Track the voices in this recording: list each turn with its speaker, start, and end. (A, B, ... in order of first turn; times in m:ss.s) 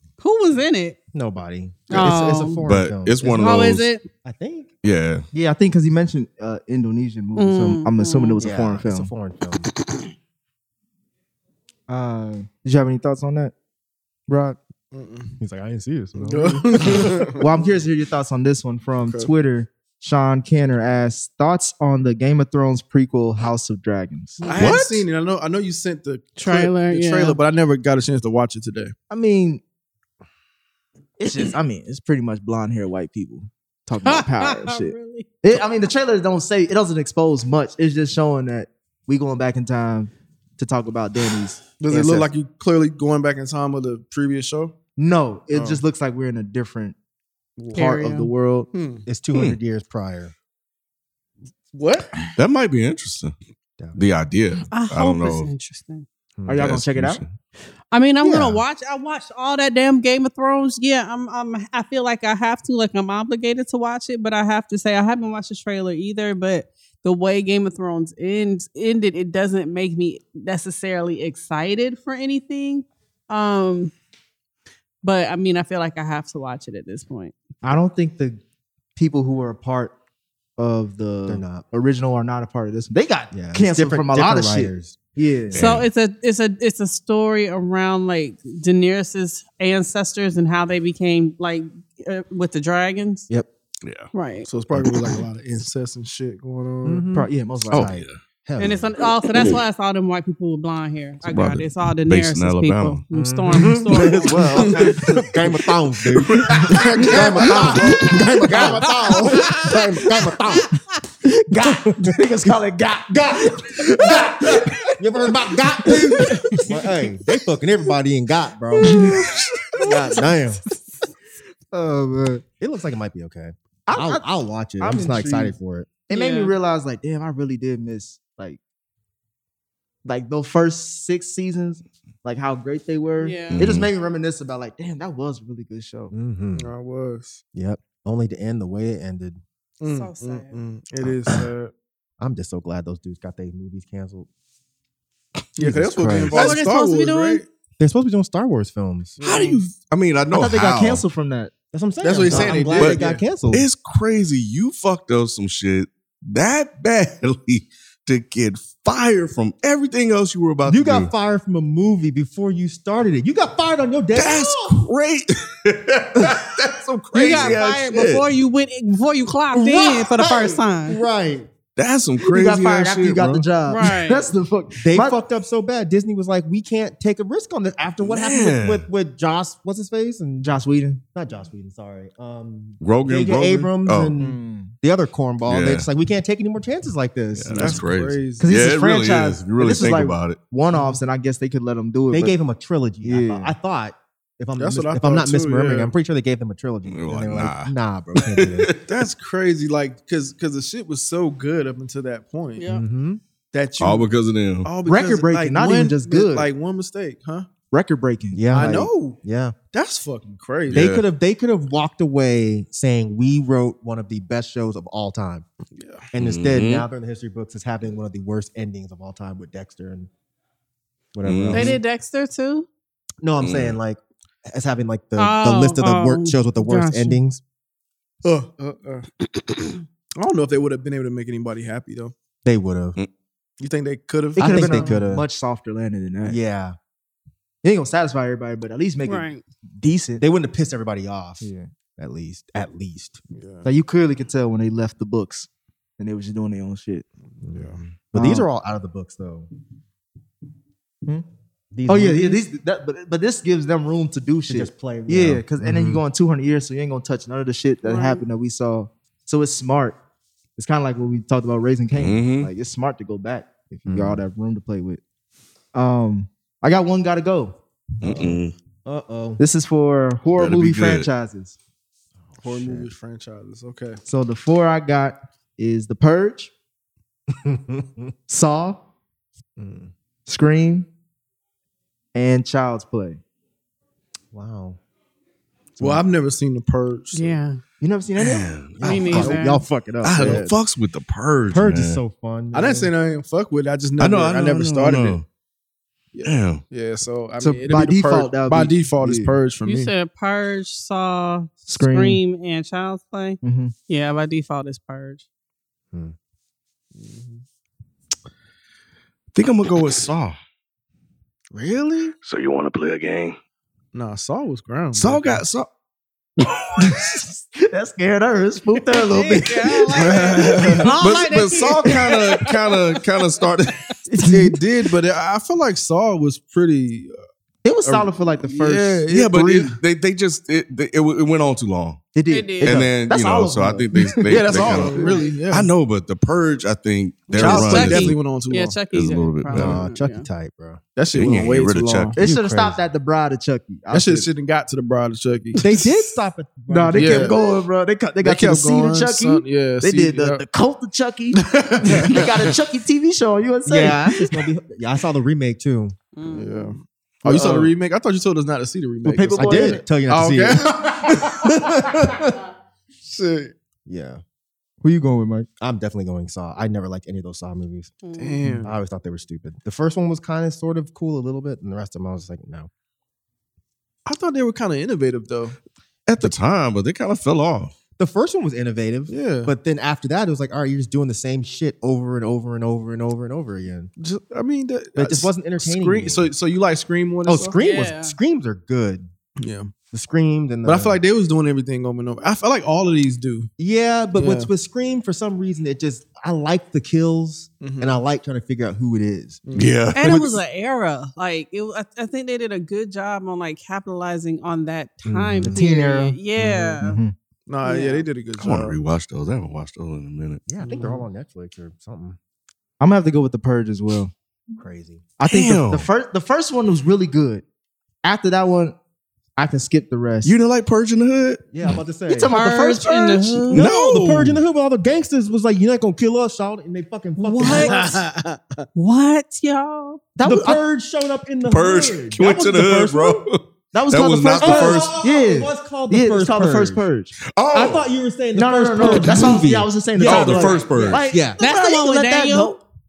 0:00.2-0:01.0 A
0:01.1-0:03.6 B
0:01.9-0:02.6 A
0:02.7-0:03.9 C
0:03.3-0:04.0 A
0:04.2-0:04.7 B
0:04.8-0:05.3 C
0:05.3-0:09.1 D
0:07.4-0:08.4 A
0:08.4-0:09.7 B
0:11.9-0:13.5 D
0:14.3-0:14.6 D
0:14.9-0:15.4 E
0:15.4-0:17.3 B
0:16.2-0:17.4 E
0:17.4-0:24.4 D
0:19.0-0:19.3 E
0:24.4-0:24.7 A
0:24.4-0:29.0 E
0:24.6-0:25.1 C
0:26.4-0:27.4 A
0:29.1-0:29.6 D
0:31.2-0:42.3 D
0:34.0-0:35.3 A
0:41.8-0:44.8 E
0:45.0-0:47.0 D
0:45.5-0:45.8 E
0:47.7-0:48.7 D
0:47.7-0:48.3 A
0:48.7-0:49.1 E
0:49.1-0:50.3 B
0:51.7-0:52.4 E
0:52.4-0:53.4 C
0:53.8-0:54.0 B
0:54.0-0:55.5 C
0:54.7-0:56.0 A
0:56.4-0:56.7 B
0:56.5-0:57.2 D
0:56.5-0:57.3 C
0:57.9-1:13.9 A
0:58.2-0:58.6 B
1:15.0-1:17.4 A
1:17.6-1:18.4 D
1:19.0-1:20.0 D
1:20.6-1:25.7 D
1:21.3-1:21.7 B
1:23.3-1:25.0 B
1:25.5-1:25.9 C
1:25.6-1:33.3 A
1:33.8-1:34.1 C
1:34.1-1:34.5 A
1:34.5-1:37.1 E
1:34.7-1:35.2 C
1:36.8-1:39.0 B
1:37.1-1:37.9 D
1:37.7-1:38.2 C
1:38.6-1:44.7 A
1:41.2-1:43.0 C
1:43.1-1:50.7 B
1:44.6-1:45.3 E
1:46.4-1:46.7 C
1:46.5-1:49.4 E
1:47.8-1:48.6 D
1:48.7-1:49.6 A
1:51.2-1:54.8 D
1:51.7-1:59.2 B
1:55.8-1:56.7 D
1:58.8-2:00.3 D
1:59.8-2:00.6 B
2:01.7-2:02.4 D
2:02.6-2:05.9 B
2:03.9-2:04.3 D
2:04.8-2:05.6 D
2:06.1-2:08.6 D
2:06.1-2:06.6 A
2:10.0-2:16.1 D
2:13.2-2:13.7 A
2:13.5-2:13.9 C
2:16.1-2:16.7 B
2:16.6-2:17.4 E
2:17.6-2:19.4 B
2:19.8-2:21.7 E
2:19.8-2:20.6 A
2:21.0-2:21.5 B
2:22.2-2:24.3 B
2:25.6-2:27.4 E
2:25.6-2:26.6 B
2:26.3-2:27.4 A
2:27.8-2:29.2 B
2:29.2-2:29.6 E
2:29.2-2:31.0 C
2:30.3-2:31.5 D
2:31.7-2:33.7 B
2:32.0-2:33.2 E
2:32.3-2:41.1 C
2:40.6-2:44.8 B
2:44.1-2:48.2 C
2:47.1-2:48.2 B
2:47.2-2:51.0 A
2:49.5-2:51.5 B
2:51.8-2:53.4 C
2:52.2-2:55.2 D
2:53.7-2:54.3 A
2:54.8-3:00.5 B
2:58.0-2:58.9 C
3:00.4-3:01.0 D
3:01.1-3:07.9 B
3:02.8-3:04.2 C
3:04.2-3:04.8 D
3:05.5-3:05.9 C
3:07.4-3:10.4 C
3:07.5-3:08.7 E
3:08.4-3:12.4 D
3:12.1-3:18.7 B
3:13.0-3:13.5 D
3:14.6-3:15.9 E
3:16.9-3:19.1 C
3:18.9-3:22.7 E
3:22.6-3:22.8 A
3:22.7-3:23.2 B
3:23.5-3:24.1 E
3:23.8-3:24.7 C
3:24.6-3:27.5 E
3:24.8-3:26.5 D
3:27.7-3:28.9 D
3:28.3-3:29.6 B
3:28.5-3:29.2 E
3:29.7-3:30.9 E
3:30.7-3:31.0 C
3:30.7-3:35.4 B
3:35.7-3:36.1 E
3:36.1-3:40.1 B
3:36.2-3:36.9 C
3:41.1-3:41.8 B
3:41.2-3:41.8 C
3:41.5-3:42.7 A
3:43.2-3:47.4 B
3:43.4-3:43.8 C
3:45.2-3:47.2 A
3:48.2-3:49.1 E
3:49.7-3:52.1 E
3:52.4-3:53.0 B
3:53.6-3:54.9 E
3:54.4-3:56.4 D
3:54.4-3:55.2 B
3:56.2-3:56.8 B
3:57.6-4:00.2 D
3:59.0-3:59.4 A
4:00.2-4:03.2 B
4:01.4-4:01.7 D
4:03.3-4:03.7 E
4:03.6-4:07.0 D
4:07.4-4:09.5 B
4:07.5-4:07.8 E
4:08.1-4:08.5 D
4:11.7-4:12.4 B
4:11.9-4:20.0 D
4:14.5-4:16.0 B
4:17.8-4:18.2 A
4:20.6-4:25.0 D
4:21.9-4:22.5 C
4:23.9-4:24.2 B
4:25.7-4:27.6 D
4:28.0-4:28.6 C
4:28.0-4:29.4 B
4:29.4-4:31.6 D
4:30.4-4:31.1 C
4:32.3-4:32.9 B
4:32.4-4:34.0 E
4:34.1-4:36.5 D
4:37.4-4:38.1 B
4:38.3-4:38.8 D
4:39.6-4:39.9 B
4:40.3-4:40.9 D
4:42.1-4:43.2 D
4:44.3-4:44.8 B
4:45.8-4:46.0 B
4:45.8-4:47.4 E
4:47.1-4:47.6 A
4:47.8-4:50.5 D
4:48.2-4:49.3 C
4:48.7-4:49.6 B
4:48.8-4:49.6 A
4:50.0-4:52.0 C
4:50.2-4:50.4 B
4:51.5-4:52.9 B
4:52.5-4:55.2 E
4:54.0-4:55.2 C
4:56.1-4:59.9 E
4:56.2-4:56.6 C
4:57.4-4:59.4 D
4:59.6-5:05.2 A
5:01.7-5:02.2 D
5:03.4-5:03.7 D
5:06.9-5:07.4 E
5:09.3-5:10.4 C
5:11.6-5:12.0 E
5:12.1-5:13.4 C
5:13.9-5:15.4 E
5:14.9-5:15.7 C
5:16.4-5:17.2 C
5:16.8-5:20.9 D
5:18.9-5:23.0 A
5:19.9-5:20.9 E
5:20.9-5:23.8 C
5:24.1-5:24.6 D
5:24.3-5:27.2 E
5:27.6-5:29.7 D
5:27.8-5:29.7 E
5:29.1-5:32.0 C
5:32.2-5:35.2 D
5:32.3-5:32.8 A
5:32.6-5:38.2 C
5:34.3-5:35.7 E
5:35.0-5:35.3 A
5:37.3-5:40.3 A
5:37.3-5:38.8 E
5:38.9-5:39.8 C
5:39.5-5:40.8 B
5:41.0-5:42.2 E
5:41.1-5:42.2 C
5:42.2-5:44.3 D
5:42.2-5:42.8 B
5:43.9-5:45.9 E
5:45.6-5:47.4 B
5:46.7-5:54.3 D
5:47.0-5:47.4 E
5:48.2-5:50.4 E
5:51.4-5:52.5 E
5:53.7-5:56.0 B
5:56.2-5:56.7 A
5:56.2-6:01.9 E
5:57.2-5:57.7 D
5:59.0-5:59.8 D
5:59.3-6:02.4 B
6:03.0-6:03.5 E
6:03.9-6:04.2 B
6:04.8-6:05.5 D
6:05.6-6:08.0 B
6:08.0-6:08.4 A
6:08.2-6:08.8 E
6:08.6-6:12.7 B
6:14.1-6:15.6 E
6:16.1-6:17.7 C
6:18.0-6:23.9 B
6:19.1-6:19.5 E
6:24.0-6:27.5 E
6:25.0-6:26.3 B
6:27.3-6:29.1 B
6:27.6-6:28.2 A
6:29.4-6:29.7 E
6:29.9-6:31.0 B
6:30.6-6:33.5 E
6:33.6-6:39.4 B
6:34.2-6:34.5 E
6:37.6-6:38.0 E
6:39.5-6:39.9 E
6:39.6-6:40.4 C
6:40.0-6:47.0 A
6:45.0-6:45.6 B
6:45.5-6:47.2 D
6:47.5-6:48.8 E
6:47.6-6:48.1 A
6:48.4-6:50.4 C
6:50.5-6:52.2 B
6:50.7-6:51.0 E
6:52.8-6:54.1 D
6:54.6-6:55.1 B
6:55.2-6:57.4 D
6:55.3-6:55.9 C
6:58.0-6:58.8 D
6:59.4-7:00.3 D
7:00.2-7:01.4 C
7:01.5-7:02.3 B
7:02.1-7:03.5 D
7:02.2-7:03.6 A
7:03.5-7:08.0 B
7:03.5-7:04.4 C
7:07.2-7:07.8 A
7:07.4-7:08.6 E
7:08.8-7:10.0 A
7:10.2-7:10.6 D
7:10.2-7:13.1 B
7:11.5-7:13.4 C
7:12.2-7:13.1 D
7:13.7-7:17.2 D
7:13.9-7:15.0 C
7:14.4-7:16.8 B
7:17.4-7:17.8 C
7:17.5-7:21.4 B
7:18.4-7:22.6 D
7:18.9-7:19.3 C
7:20.0-7:21.0 C
7:21.1-7:22.6 A